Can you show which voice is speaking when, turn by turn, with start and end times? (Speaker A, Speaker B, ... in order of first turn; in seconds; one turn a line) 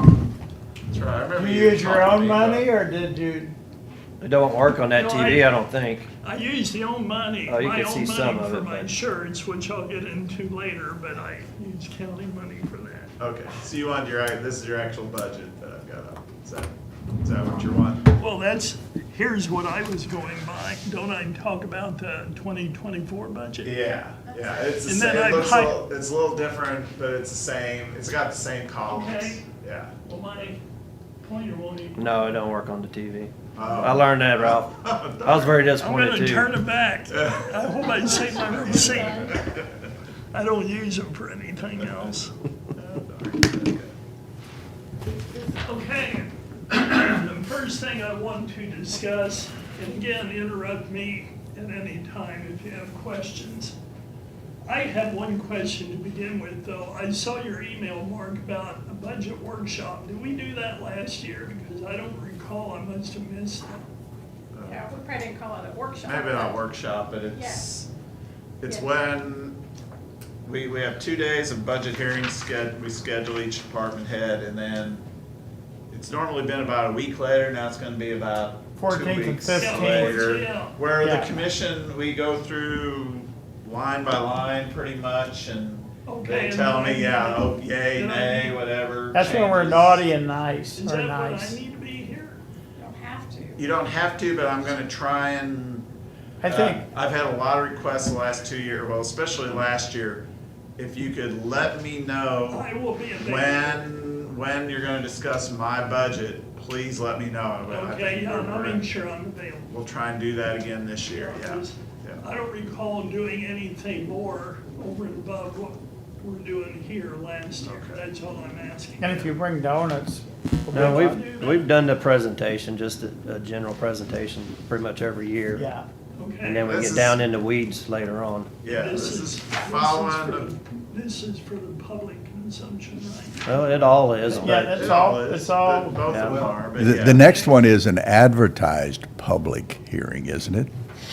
Speaker A: 0.9-2.7
Speaker B: 1.4-3.5
Speaker C: 4.2-6.1
Speaker D: 4.9-5.6
Speaker D: 6.2-13.1
Speaker C: 7.5-8.9
Speaker A: 13.2-18.1
Speaker D: 18.2-23.9
Speaker A: 23.6-30.2
Speaker D: 24.8-25.8
Speaker D: 28.9-29.4
Speaker D: 30.1-30.6
Speaker D: 31.2-32.4
Speaker C: 31.9-36.5
Speaker A: 33.5-35.7
Speaker D: 33.6-34.0
Speaker D: 35.8-39.6
Speaker A: 37.1-37.5
Speaker A: 38.4-39.7
Speaker D: 40.3-42.3
Speaker A: 41.8-42.2
Speaker A: 42.8-43.9
Speaker D: 45.5-53.8
Speaker D: 54.6-63.9
Speaker A: 64.5-64.9
Speaker E: 64.7-66.6
Speaker A: 66.0-67.9
Speaker E: 67.3-67.6
Speaker A: 68.6-69.6
Speaker A: 70.5-75.0
Speaker A: 75.9-90.0
Speaker B: 78.8-80.0
Speaker D: 79.6-80.8
Speaker B: 81.0-81.3
Speaker D: 86.1-88.7
Speaker B: 89.1-91.6
Speaker D: 90.8-92.4
Speaker E: 92.8-93.6
Speaker A: 93.6-95.9
Speaker B: 96.4-96.8
Speaker A: 96.4-108.9
Speaker D: 102.5-103.9
Speaker D: 107.7-109.7
Speaker A: 109.7-112.2
Speaker D: 111.1-119.4
Speaker A: 117.6-118.0
Speaker B: 119.0-121.1
Speaker D: 120.7-121.7
Speaker C: 120.7-125.7
Speaker B: 125.6-125.9
Speaker D: 126.2-126.8
Speaker C: 126.4-128.5
Speaker A: 126.7-127.2
Speaker A: 128.6-130.5
Speaker D: 128.7-133.8
Speaker C: 133.4-134.7
Speaker A: 134.4-137.4
Speaker B: 134.5-136.0
Speaker C: 136.1-136.7
Speaker F: 136.7-140.7
Speaker D: 137.2-137.6